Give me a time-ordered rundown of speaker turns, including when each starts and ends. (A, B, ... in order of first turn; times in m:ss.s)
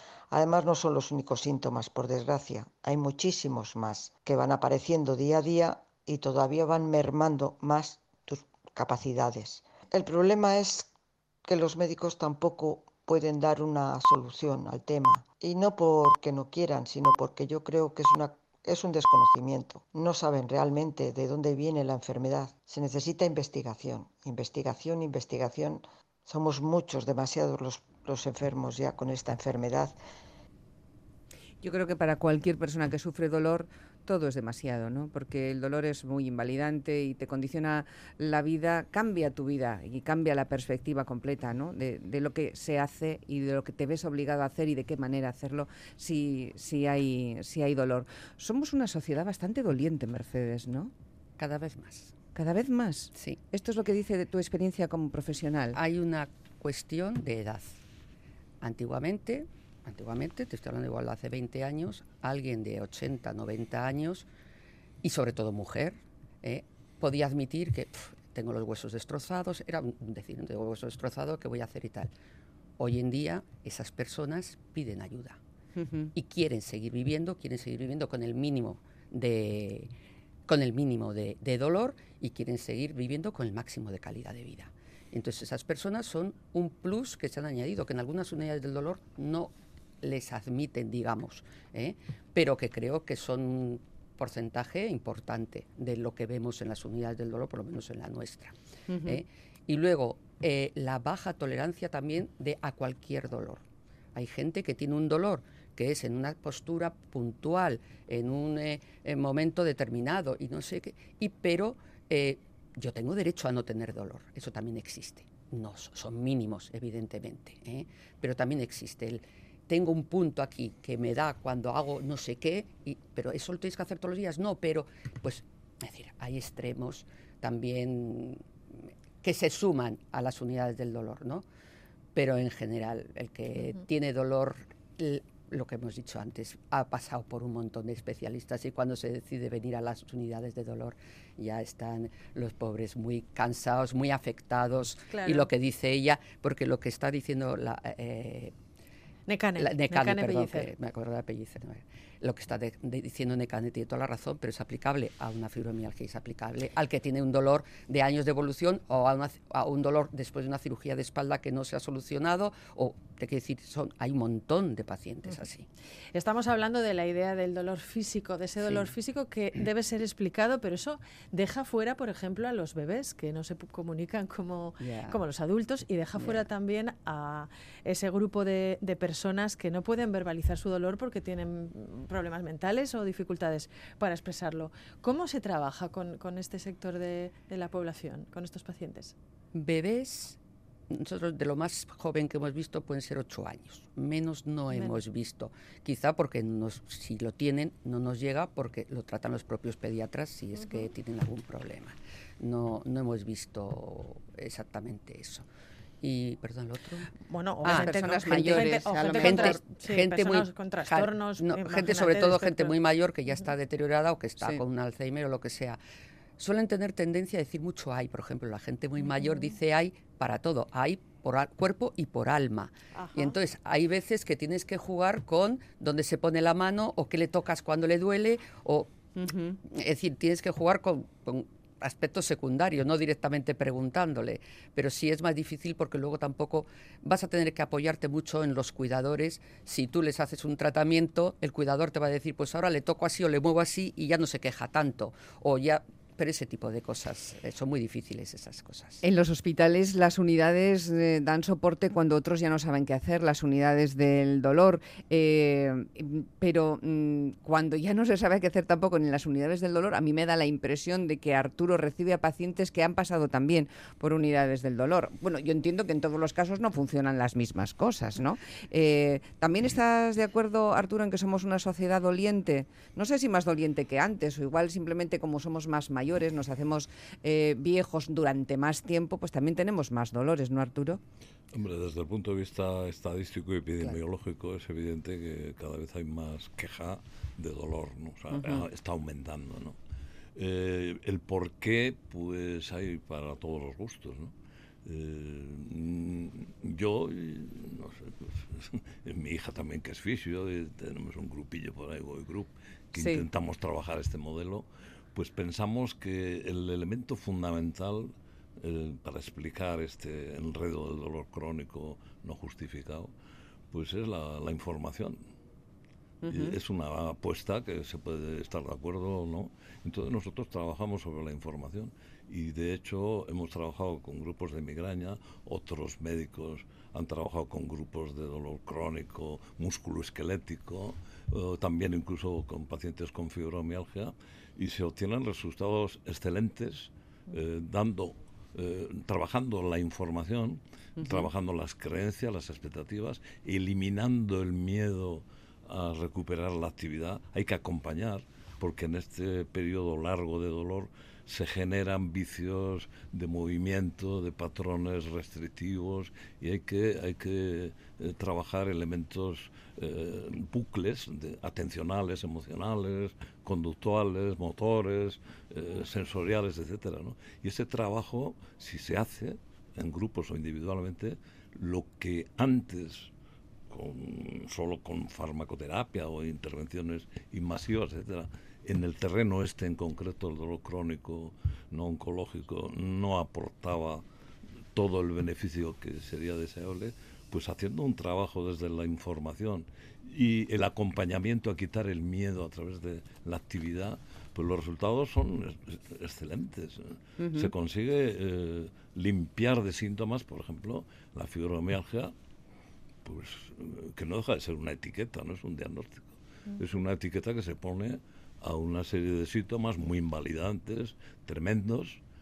0:00.3-0:10.9 A
0:11.4-0:30.0 A
0:31.6-0:50.9 B
0:51.4-0:52.1 C
0:52.3-0:55.8 B
0:53.1-0:53.4 C
0:55.7-0:57.8 C
0:58.6-1:04.3 C
1:05.0-1:12.1 C
1:12.8-1:15.4 C
1:15.8-1:16.1 B
1:16.1-1:19.9 C
1:20.5-1:38.5 C
1:38.9-1:39.2 B
1:39.0-1:43.6 C
1:44.1-2:11.4 C
2:12.1-2:28.5 C
2:25.1-2:25.5 D
2:29.3-2:30.7 D
2:29.6-2:45.6 C
2:46.1-3:09.1 D
2:48.6-2:48.9 C
2:54.8-2:55.2 C
2:56.2-2:56.4 C
3:09.5-3:10.4 C
3:10.9-3:25.5 C
3:14.7-3:15.0 D
3:26.0-3:35.8 C
3:27.3-3:32.7 D
3:27.6-3:29.6 B
3:36.4-3:49.0 C
3:42.9-3:43.3 D
3:49.2-3:49.6 B
3:49.6-4:09.0 C
4:09.0-4:41.0 B
4:41.5-4:49.8 E
4:48.3-4:48.6 B
4:50.4-4:54.3 E
4:54.8-5:13.1 E
5:03.0-5:03.2 B
5:13.7-5:15.2 E
5:16.2-5:16.6 B
5:16.3-6:13.1 E
5:41.0-5:41.3 B
6:13.7-6:24.0 E
6:24.7-6:42.1 E
6:37.2-6:37.5 B
6:43.0-6:52.0 E